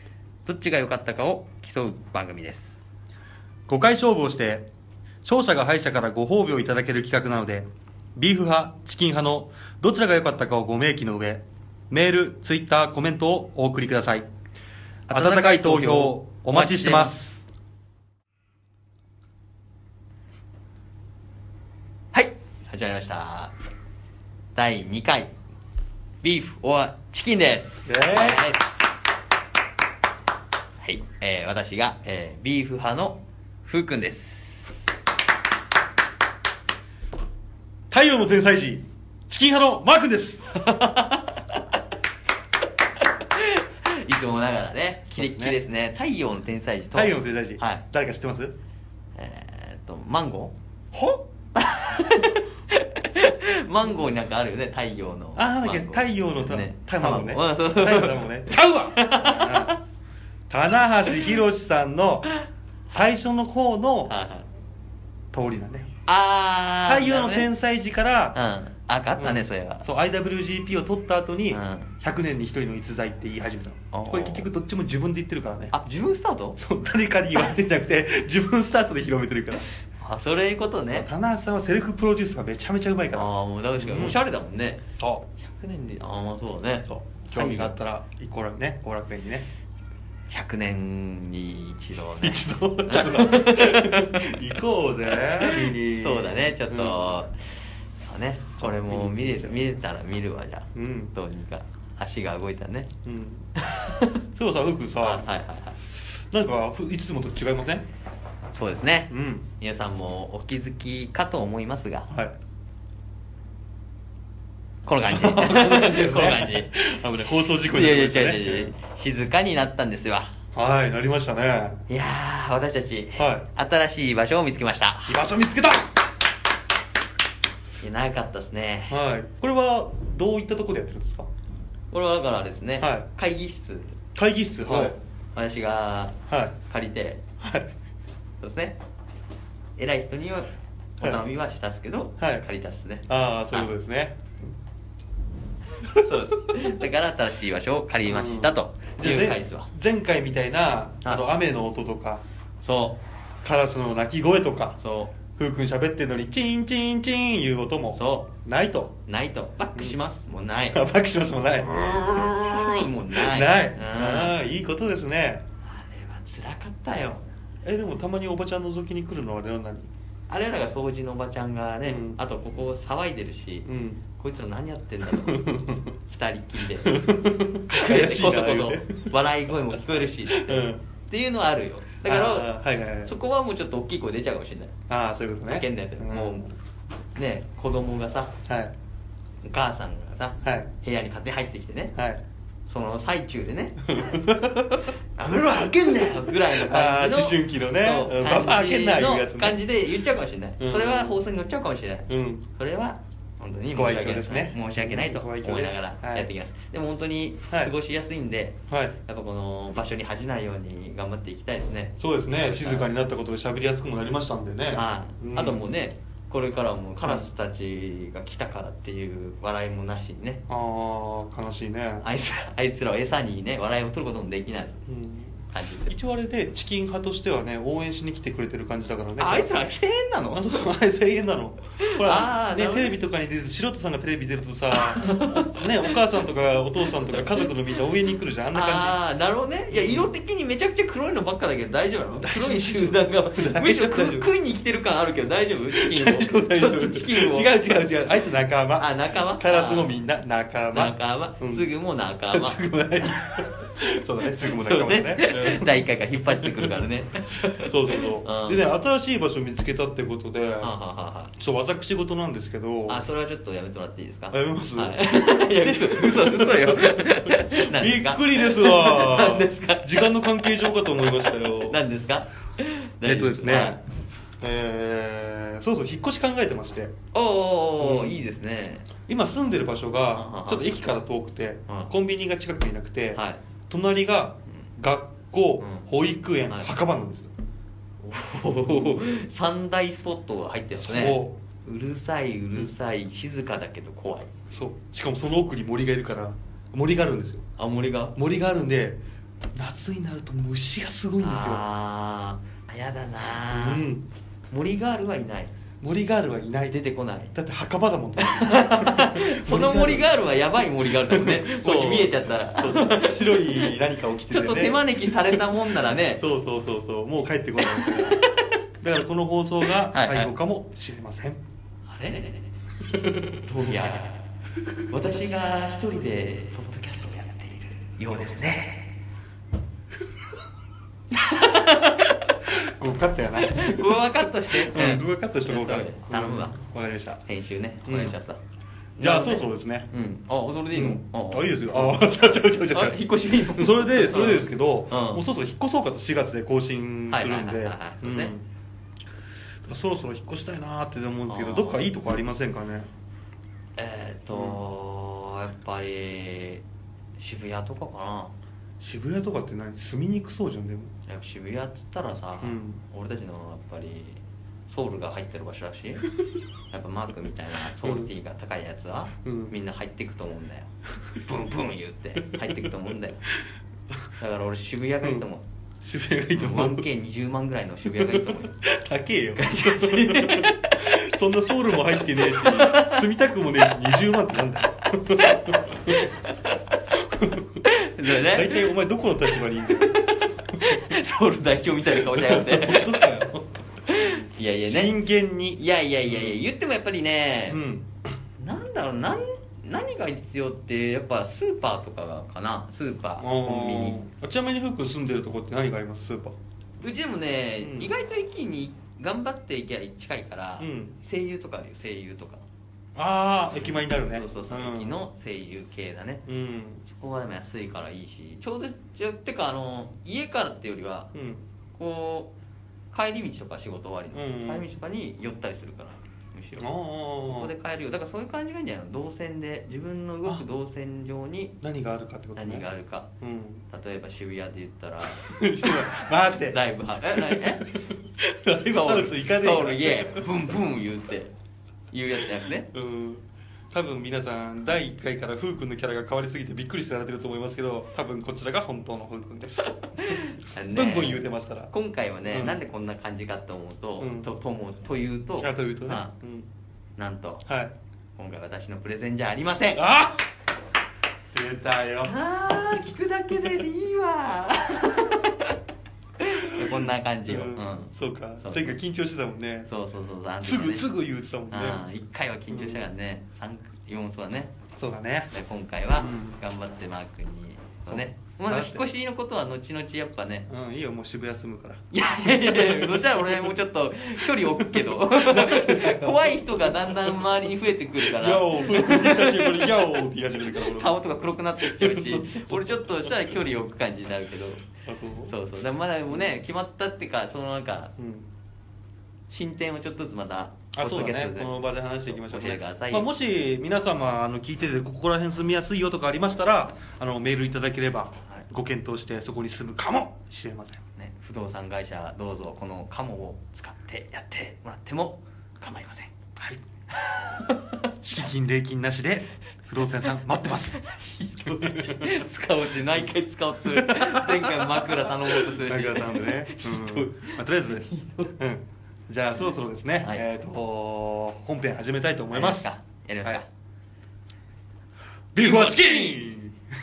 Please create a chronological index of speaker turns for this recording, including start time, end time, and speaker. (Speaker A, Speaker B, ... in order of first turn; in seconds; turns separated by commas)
Speaker A: 0.5-2.8, Speaker B: 3.7-4.7, Speaker B: 5.2-14.3, Speaker A: 15.1-17.2, Speaker B: 15.1-17.4, Speaker A: 22.1-23.5, Speaker A: 24.6-25.3, Speaker A: 26.2-28.8, Speaker B: 27.9-28.5, Speaker A: 30.8-34.7, Speaker B: 37.9-40.5, Speaker A: 40.6-41.6, Speaker A: 43.0-47.9, Speaker B: 45.2-45.6, Speaker B: 46.9-48.6, Speaker A: 49.2-50.6, Speaker B: 50.9-51.2, Speaker A: 51.5-59.8, Speaker B: 55.4-59.8, Speaker B: 60.5-62.3, Speaker B: 62.9-64.1, Speaker A: 64.1-64.5, Speaker B: 65.3-65.9, Speaker A: 66.1-67.5, Speaker B: 66.9-68.4, Speaker A: 68.3-69.9, Speaker B: 69.2-75.7, Speaker A: 71.5-71.9, Speaker A: 73.9-74.5, Speaker A: 75.7-76.6, Speaker B: 76.6-79.7, Speaker A: 80.0-81.1, Speaker B: 80.9-84.2, Speaker A: 83.1-84.8, Speaker B: 85.0-85.3, Speaker A: 85.4-87.7, Speaker B: 86.9-89.5, Speaker A: 90.3-94.4, Speaker B: 92.2-97.0, Speaker A: 95.1-97.5, Speaker A: 98.0-102.9, Speaker B: 98.6-99.6, Speaker B: 100.8-101.1, Speaker B: 103.0-103.5, Speaker A: 103.6-104.2, Speaker B: 104.3-105.3, Speaker A: 105.0-105.8, Speaker B: 106.3-107.9, Speaker A: 108.5-112.1, Speaker B: 109.1-109.5, Speaker B: 112.1-112.3, Speaker A: 114.9-116.7, Speaker B: 115.1-118.7, Speaker A: 117.6-120.3, Speaker B: 120.5-121.8, Speaker A: 121.9-125.2, Speaker B: 123.2-123.5, Speaker B: 125.1-125.9, Speaker A: 127.8-129.0, Speaker B: 128.9-131.3, Speaker A: 131.9-134.0, Speaker B: 132.8-133.1, Speaker B: 134.2-135.0, Speaker A: 134.7-137.2, Speaker B: 136.3-136.6, Speaker B: 137.4-137.7, Speaker A: 138.4-138.8, Speaker A: 139.8-143.7, Speaker B: 142.2-142.4, Speaker B: 143.1-144.3, Speaker A: 145.8-149.7, Speaker B: 148.1-152.2, Speaker A: 152.6-153.0, Speaker B: 153.4-154.8, Speaker A: 154.8-155.1, Speaker B: 155.4-159.0, Speaker A: 157.9-158.3, Speaker A: 159.1-160.8, Speaker B: 160.7-165.4, Speaker A: 161.7-164.4, Speaker A: 165.6-167.2, Speaker B: 167.6-169.9, Speaker A: 170.3-175.5, Speaker B: 171.9-172.2, Speaker B: 173.7-174.0, Speaker B: 175.1-175.9, Speaker A: 176.1-177.1, Speaker B: 176.8-179.1, Speaker A: 177.7-184.8, Speaker B: 180.3-180.8, Speaker B: 182.1-183.1, Speaker B: 184.9-186.5, Speaker A: 185.5-186.5, Speaker A: 187.2-188.3, Speaker B: 188.5-188.7, Speaker A: 189.4-191.9, Speaker B: 190.4-190.7, Speaker B: 191.9-192.2, Speaker A: 192.7-194.2, Speaker B: 193.9-194.9, Speaker A: 195.2-212.9, Speaker B: 195.6-199.6, Speaker B: 200.6-201.2, Speaker B: 202.1-202.4, Speaker B: 203.7-206.3, Speaker B: 208.7-209.0, Speaker B: 212.0-215.7, Speaker A: 214.7-220.4, Speaker B: 220.5-222.1, Speaker A: 222.0-224.8, Speaker B: 224.9-229.6, Speaker A: 225.5-225.9, Speaker A: 229.2-230.7, Speaker B: 230.3-239.0, Speaker A: 231.8-232.9, Speaker A: 234.7-236.0, Speaker A: 236.9-237.5, Speaker A: 238.5-247.5, Speaker B: 239.7-240.1, Speaker B: 242.2-244.3, Speaker B: 245.7-251.7, Speaker A: 248.8-249.9, Speaker A: 250.7-252.6, Speaker B: 252.3-256.8, Speaker A: 254.6-258.6, Speaker B: 257.4-260.7, Speaker A: 260.6-261.4, Speaker B: 261.4-263.0, Speaker A: 262.9-273.8, Speaker B: 264.3-271.8, Speaker B: 273.1-273.8, Speaker B: 274.4-276.9, Speaker A: 277.1-278.9, Speaker B: 277.8-278.2, Speaker B: 279.1-287.3, Speaker A: 280.1-280.7, Speaker A: 283.1-283.4, Speaker A: 286.5-286.8, Speaker A: 288.0-294.3, Speaker B: 290.8-291.4, Speaker B: 294.5-297.4, Speaker A: 297.6-298.1, Speaker B: 298.1-299.0, Speaker B: 299.6-301.6, Speaker A: 301.2-303.9, Speaker B: 303.5-304.1, Speaker A: 304.5-305.5, Speaker B: 305.8-306.8, Speaker A: 306.7-307.3, Speaker B: 307.3-310.1, Speaker A: 308.2-313.8, Speaker B: 311.1-315.6, Speaker A: 314.3-316.2, Speaker B: 316.1-318.2, Speaker A: 317.6-318.5, Speaker B: 318.8-321.4, Speaker A: 319.9-320.3, Speaker A: 321.9-322.3, Speaker B: 322.9-323.4, Speaker A: 323.4-324.3, Speaker A: 324.9-328.9, Speaker A: 331.1-332.4, Speaker B: 332.5-337.2, Speaker A: 333.4-336.6, Speaker A: 337.2-338.4, Speaker B: 337.9-338.1, Speaker A: 339.0-345.2, Speaker B: 339.0-339.9, Speaker B: 340.7-348.4, Speaker A: 347.1-348.3, Speaker B: 349.7-352.9, Speaker A: 351.3-351.8, Speaker A: 353.8-356.6, Speaker B: 354.3-354.6, Speaker A: 357.2-358.4, Speaker B: 358.8-360.9, Speaker A: 361.1-366.1, Speaker B: 362.4-362.8, Speaker A: 366.7-370.7, Speaker B: 367.8-368.1, Speaker B: 369.2-369.5, Speaker A: 371.2-373.2, Speaker A: 374.2-375.4, Speaker B: 375.8-376.9, Speaker A: 376.3-378.6, Speaker B: 377.9-386.1, Speaker A: 379.4-380.9, Speaker A: 381.9-383.1, Speaker A: 384.8-386.8, Speaker B: 387.0-390.1, Speaker A: 387.6-393.3, Speaker B: 392.0-393.5, Speaker A: 393.9-394.9, Speaker B: 394.7-396.5, Speaker A: 395.6-397.6, Speaker B: 397.5-397.9, Speaker A: 398.4-404.0, Speaker B: 403.2-406.4, Speaker A: 406.8-412.4, Speaker B: 407.6-407.9, Speaker B: 410.6-410.9, Speaker B: 413.0-415.0, Speaker A: 413.5-416.2, Speaker B: 416.3-416.8, Speaker A: 416.9-421.1, Speaker B: 421.1-421.4, Speaker A: 421.8-422.3, Speaker A: 422.9-426.7, Speaker B: 424.1-424.7, Speaker B: 426.6-427.5, Speaker A: 427.3-431.6, Speaker B: 431.6-432.7, Speaker A: 432.4-433.1, Speaker B: 433.2-433.6, Speaker A: 433.7-437.7, Speaker B: 435.1-440.3, Speaker A: 438.6-441.3, Speaker A: 441.9-442.7, Speaker B: 442.7-451.7, Speaker A: 449.7-456.1, Speaker B: 452.2-452.6, Speaker B: 454.0-454.3, Speaker B: 455.4-456.5, Speaker A: 457.0-457.4, Speaker B: 457.5-457.8, Speaker A: 458.2-459.8, Speaker B: 459.8-460.2, Speaker B: 461.3-462.2, Speaker A: 462.0-465.6, Speaker A: 466.2-468.8, Speaker B: 466.5-469.7, Speaker A: 469.7-470.9, Speaker B: 470.4-471.8, Speaker A: 471.5-474.6, Speaker B: 472.5-472.9, Speaker B: 474.8-475.3, Speaker A: 475.3-480.5, Speaker B: 475.9-476.4, Speaker B: 477.9-478.9, Speaker B: 480.5-483.6, Speaker A: 481.9-494.7, Speaker B: 484.5-487.5, Speaker B: 488.0-491.0, Speaker B: 491.6-493.4, Speaker B: 494.9-495.4, Speaker A: 495.3-497.9, Speaker B: 498.0-498.3, Speaker A: 499.3-501.5, Speaker B: 500.7-510.8, Speaker A: 502.1-503.1, Speaker A: 511.0-516.1, Speaker A: 516.9-517.9, Speaker B: 518.0-520.8, Speaker A: 520.0-528.3, Speaker B: 521.4-522.2, Speaker B: 523.7-532.7, Speaker A: 532.3-533.5, Speaker B: 535.3-536.6, Speaker A: 535.4-536.2